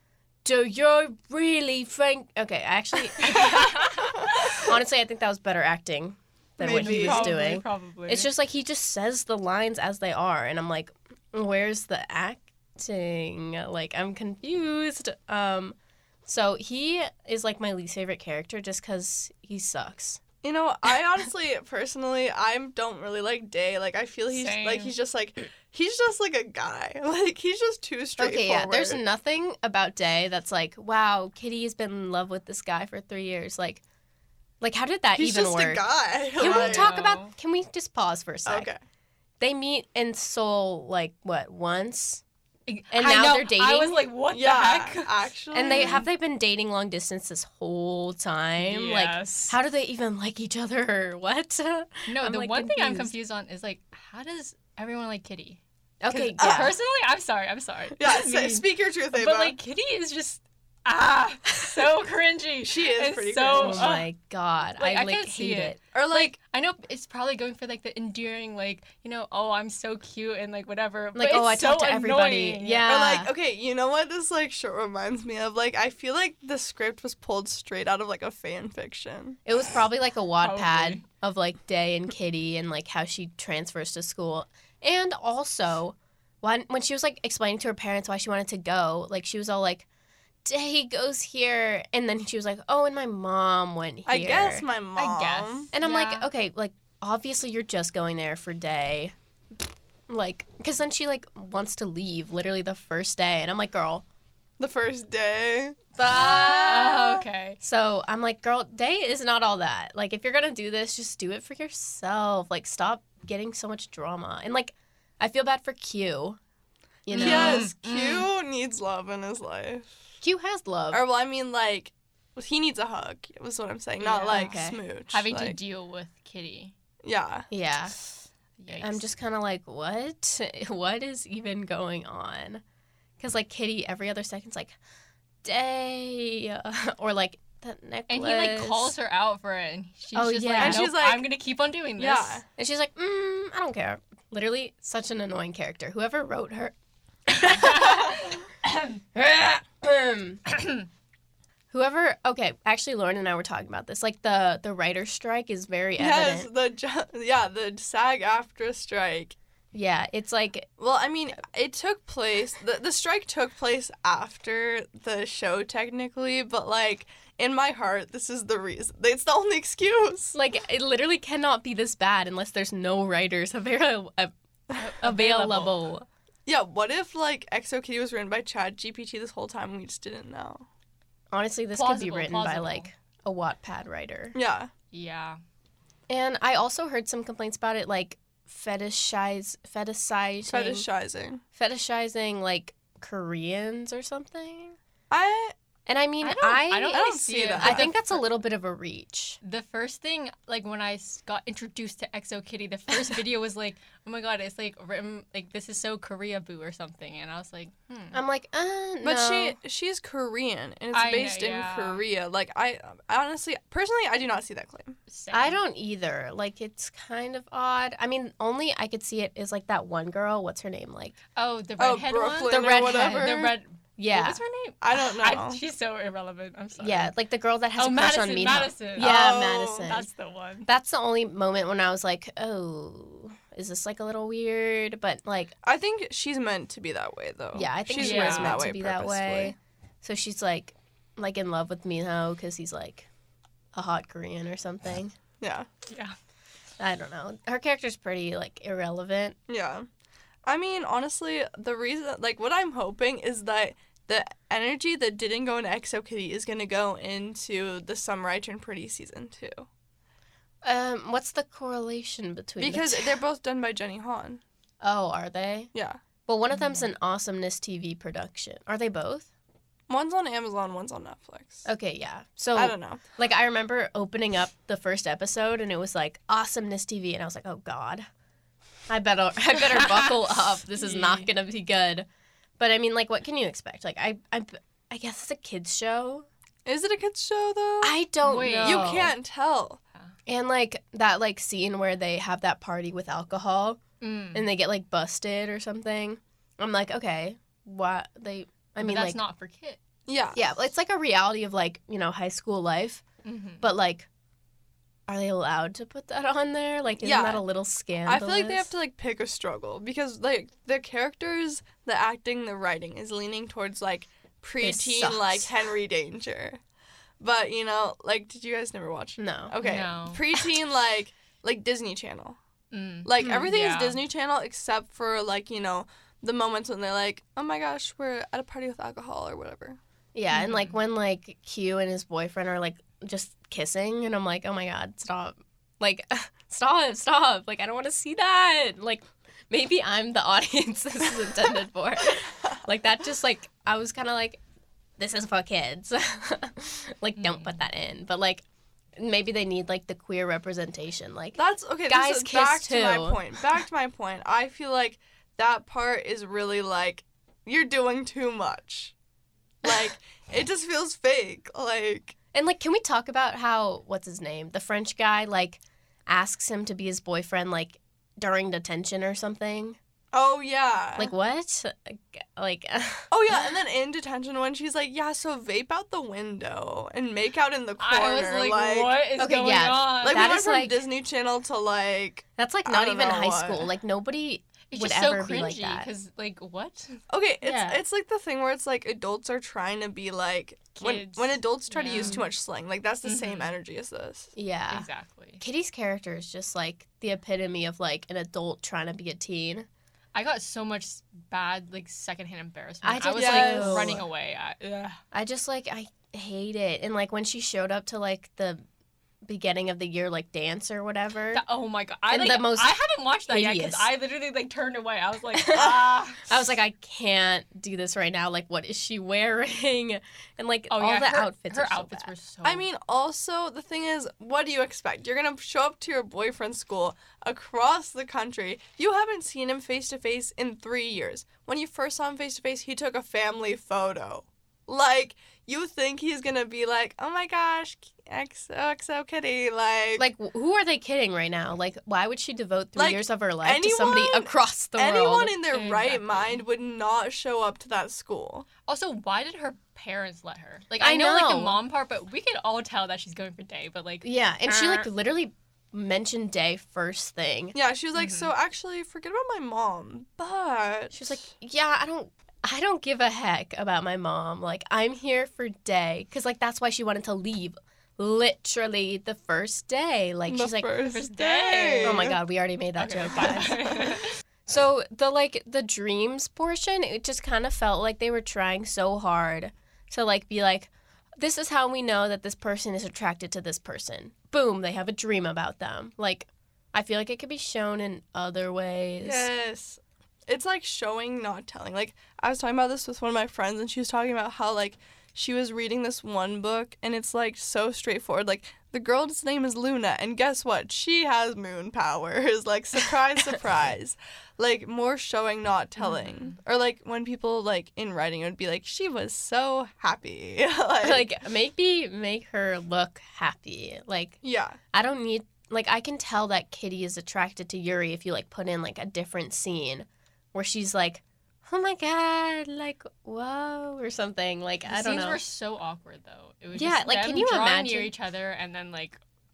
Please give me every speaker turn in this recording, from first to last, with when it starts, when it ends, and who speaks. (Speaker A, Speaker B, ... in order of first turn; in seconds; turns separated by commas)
Speaker A: 0.4-20.2, Speaker B: 3.2-4.7, Speaker C: 6.6-7.4, Speaker B: 6.6-8.3, Speaker C: 20.4-29.0, Speaker B: 24.3-24.9, Speaker A: 28.2-33.8, Speaker A: 34.6-38.7, Speaker C: 35.1-36.9, Speaker B: 36.4-37.3, Speaker C: 38.5-38.8, Speaker A: 39.4-42.2, Speaker B: 42.7-45.1, Speaker A: 42.9-44.0, Speaker C: 44.3-46.0, Speaker A: 45.5-53.1, Speaker B: 45.7-46.1, Speaker B: 48.6-49.6, Speaker B: 52.1-64.1, Speaker A: 56.0-56.8, Speaker C: 56.4-56.7, Speaker C: 58.0-59.6, Speaker C: 62.6-64.0, Speaker A: 63.5-65.8, Speaker B: 64.8-72.9, Speaker C: 65.9-66.4, Speaker A: 71.2-73.3, Speaker C: 72.9-79.4, Speaker A: 79.5-89.9, Speaker B: 80.4-81.0, Speaker A: 90.4-94.7, Speaker C: 94.1-95.7, Speaker B: 95.0-96.3, Speaker A: 95.7-99.2, Speaker A: 100.1-104.0, Speaker C: 104.6-105.8, Speaker A: 106.0-116.4, Speaker B: 106.1-107.6, Speaker A: 117.1-117.7, Speaker B: 117.1-118.3, Speaker C: 117.2-119.9, Speaker A: 120.2-121.0, Speaker C: 120.9-125.6, Speaker B: 124.0-126.7, Speaker A: 124.3-124.8, Speaker C: 127.0-127.5, Speaker A: 127.5-128.0, Speaker B: 128.6-129.1, Speaker A: 128.8-132.6, Speaker A: 133.2-134.8, Speaker A: 135.4-138.9, Speaker B: 138.1-142.4, Speaker A: 140.1-140.9, Speaker C: 140.6-141.2, Speaker C: 142.0-142.4, Speaker A: 142.6-146.8, Speaker A: 147.3-148.2, Speaker B: 147.4-149.0, Speaker A: 149.1-150.4, Speaker A: 151.7-156.5, Speaker C: 156.0-159.4, Speaker A: 159.7-160.7, Speaker C: 160.8-170.4, Speaker A: 170.3-174.3, Speaker B: 174.7-175.8, Speaker A: 175.0-176.1, Speaker C: 176.4-180.7, Speaker A: 181.3-184.3, Speaker B: 181.7-182.9, Speaker C: 184.3-184.7, Speaker B: 184.9-185.4, Speaker A: 186.1-190.9, Speaker C: 190.4-191.4, Speaker A: 191.6-194.8, Speaker C: 195.1-195.5, Speaker A: 195.9-199.4, Speaker B: 196.2-198.2, Speaker C: 196.9-197.9, Speaker B: 199.4-208.2, Speaker A: 208.1-209.6, Speaker C: 209.0-214.9, Speaker B: 210.9-212.0, Speaker B: 215.1-215.6, Speaker A: 215.3-221.2, Speaker B: 221.3-227.1, Speaker C: 221.8-223.3, Speaker A: 222.5-224.4, Speaker C: 224.8-225.6, Speaker A: 226.8-230.1, Speaker B: 227.8-229.2, Speaker C: 229.0-229.9, Speaker B: 229.8-230.7, Speaker A: 230.7-235.5, Speaker C: 235.6-239.6, Speaker A: 237.6-243.1, Speaker B: 238.0-238.6, Speaker A: 243.7-245.2, Speaker C: 245.4-245.7, Speaker B: 245.9-246.2, Speaker A: 246.8-249.4, Speaker C: 249.5-249.9, Speaker C: 250.4-259.7, Speaker A: 260.6-263.2, Speaker C: 262.6-264.4, Speaker A: 264.8-265.7, Speaker C: 265.7-266.0, Speaker A: 266.3-269.3, Speaker B: 266.5-266.9, Speaker C: 269.9-271.7, Speaker A: 271.7-278.1, Speaker C: 272.6-273.0, Speaker A: 278.9-282.1, Speaker B: 280.8-281.3, Speaker A: 282.6-286.3, Speaker C: 286.6-287.9, Speaker A: 287.8-289.1, Speaker B: 288.2-289.0, Speaker C: 288.6-289.8, Speaker A: 290.3-293.8, Speaker B: 294.0-294.5, Speaker A: 294.3-299.2, Speaker B: 298.8-299.8, Speaker C: 300.1-300.4, Speaker A: 300.3-303.0, Speaker B: 303.2-303.7, Speaker A: 303.6-304.1, Speaker A: 305.1-308.7, Speaker C: 307.0-307.4, Speaker C: 308.1-316.6, Speaker A: 314.6-315.5, Speaker C: 317.2-322.4, Speaker A: 319.2-319.6, Speaker B: 319.6-320.2, Speaker B: 322.7-324.0, Speaker C: 323.1-329.8, Speaker A: 323.2-323.5, Speaker A: 330.1-344.4, Speaker B: 330.3-330.8, Speaker A: 345.0-348.4, Speaker B: 347.2-347.6, Speaker A: 349.0-353.6, Speaker C: 351.4-358.9, Speaker C: 359.6-362.1, Speaker A: 362.3-369.8, Speaker C: 370.1-371.1, Speaker A: 371.0-373.6, Speaker C: 373.1-378.9, Speaker B: 377.8-380.5, Speaker A: 379.2-380.8, Speaker C: 380.0-383.7, Speaker A: 382.4-385.9, Speaker B: 384.7-387.8, Speaker C: 387.1-394.3, Speaker B: 390.8-392.2, Speaker A: 391.9-392.3, Speaker B: 393.1-393.5, Speaker A: 394.4-394.9, Speaker B: 394.7-395.4, Speaker A: 395.4-399.7, Speaker B: 400.1-405.0, Speaker A: 402.8-404.1, Speaker C: 403.2-404.0, Speaker A: 405.1-408.6, Speaker A: 409.2-411.4, Speaker B: 411.3-416.3, Speaker A: 412.1-413.9, Speaker A: 415.3-422.1, Speaker C: 415.5-415.8, Speaker B: 420.7-422.7, Speaker C: 422.4-440.1, Speaker A: 440.0-445.3, Speaker C: 442.8-448.4, Speaker B: 445.5-446.4, Speaker B: 448.7-454.9, Speaker A: 450.8-451.6, Speaker A: 454.0-457.6, Speaker C: 457.5-461.2, Speaker B: 457.9-458.3, Speaker A: 460.9-470.8, Speaker C: 470.3-472.2, Speaker B: 470.8-472.1, Speaker A: 471.8-473.9, Speaker B: 472.8-474.1, Speaker A: 474.4-489.3, Speaker C: 489.0-511.1, Speaker B: 505.8-506.4, Speaker A: 510.8-514.2, Speaker C: 514.2-514.6, Speaker A: 514.7-525.2, Speaker B: 524.7-529.0, Speaker A: 526.5-527.9